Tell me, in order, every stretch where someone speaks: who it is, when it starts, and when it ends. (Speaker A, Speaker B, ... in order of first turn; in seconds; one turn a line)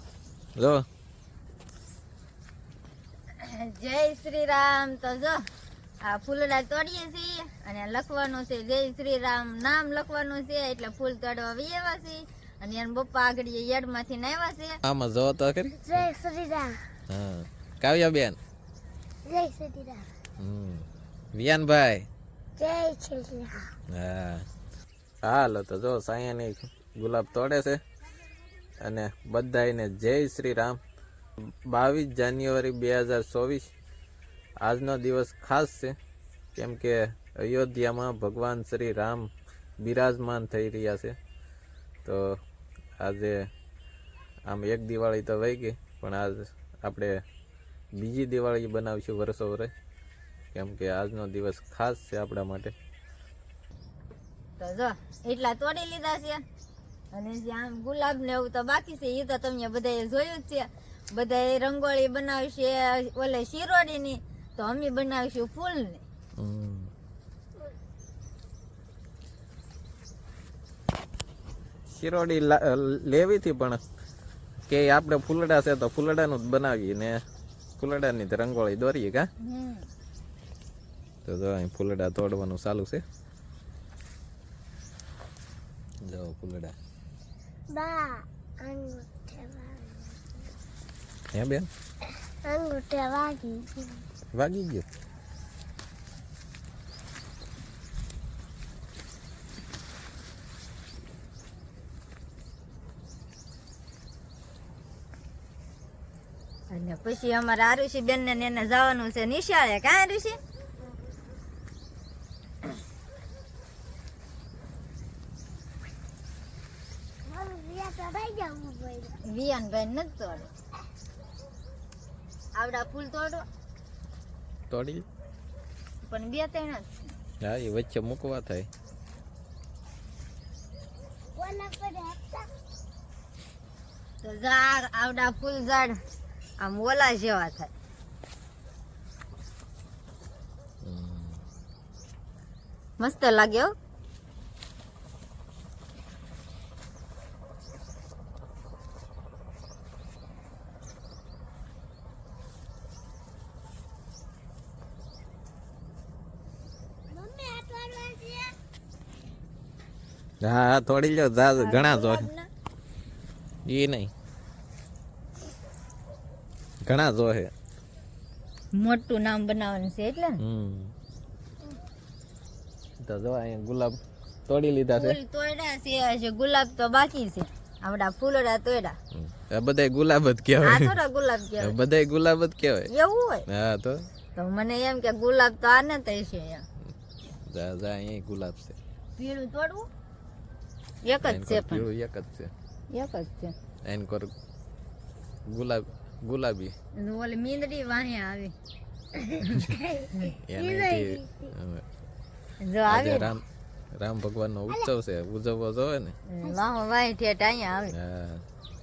Speaker A: 0.6-0.8
Speaker B: 3.4-5.4
Speaker B: 6.0-14.8
Speaker A: 14.8-16.1
Speaker C: 15.8-16.7
Speaker A: 17.1-18.4
Speaker C: 19.2-20.1
Speaker A: 20.4-22.1
Speaker C: 22.6-23.6
Speaker A: 23.9-24.4
Speaker A: 25.2-27.8
Speaker A: 28.8-30.8
Speaker A: 31.4-33.7
Speaker A: 34.6-35.9
Speaker A: 36.5-39.3
Speaker A: 39.8-41.1
Speaker A: 42.0-42.4
Speaker A: 43.0-43.4
Speaker A: 44.5-47.2
Speaker A: 48.0-49.7
Speaker A: 50.5-52.7
Speaker B: 54.6-56.4
Speaker B: 57.1-66.0
Speaker A: 66.4-66.9
Speaker A: 71.9-73.8
Speaker A: 74.7-77.1
Speaker A: 77.8-79.2
Speaker B: 79.4-79.9
Speaker A: 81.2-83.0
Speaker A: 86.0-86.7
Speaker C: 87.7-90.4
Speaker A: 91.3-91.7
Speaker C: 92.4-94.0
Speaker A: 94.3-94.8
Speaker B: 106.7-110.4
Speaker C: 117.2-119.2
Speaker B: 119.2-120.5
Speaker B: 122.5-123.5
Speaker A: 124.7-125.0
Speaker B: 126.0-126.9
Speaker A: 127.4-128.7
Speaker C: 131.3-132.5
Speaker B: 134.2-136.0
Speaker B: 136.6-137.7
Speaker A: 140.8-141.4
Speaker B: 143.0-143.7
Speaker C: 157.1-158.5
Speaker A: 160.4-162.3
Speaker B: 161.6-162.5
Speaker A: 163.7-164.1
Speaker A: 166.8-167.5
Speaker B: 168.7-170.4
Speaker A: 170.4-170.9
Speaker A: 173.0-175.2
Speaker B: 174.9-179.0
Speaker A: 179.1-180.9
Speaker B: 180.6-181.7
Speaker A: 181.6-182.9
Speaker B: 182.9-183.4
Speaker A: 183.5-184.0
Speaker B: 184.3-186.6
Speaker A: 187.5-188.8
Speaker B: 189.2-189.9
Speaker B: 191.0-191.8
Speaker A: 191.2-192.5
Speaker B: 192.9-193.5
Speaker A: 193.8-194.3
Speaker A: 195.5-196.7
Speaker B: 197.0-198.5
Speaker C: 199.2-201.5
Speaker B: 199.5-200.3
Speaker A: 200.4-201.8
Speaker B: 202.6-203.3
Speaker A: 202.9-203.4
Speaker A: 204.0-206.2
Speaker B: 206.3-207.9
Speaker A: 207.9-208.4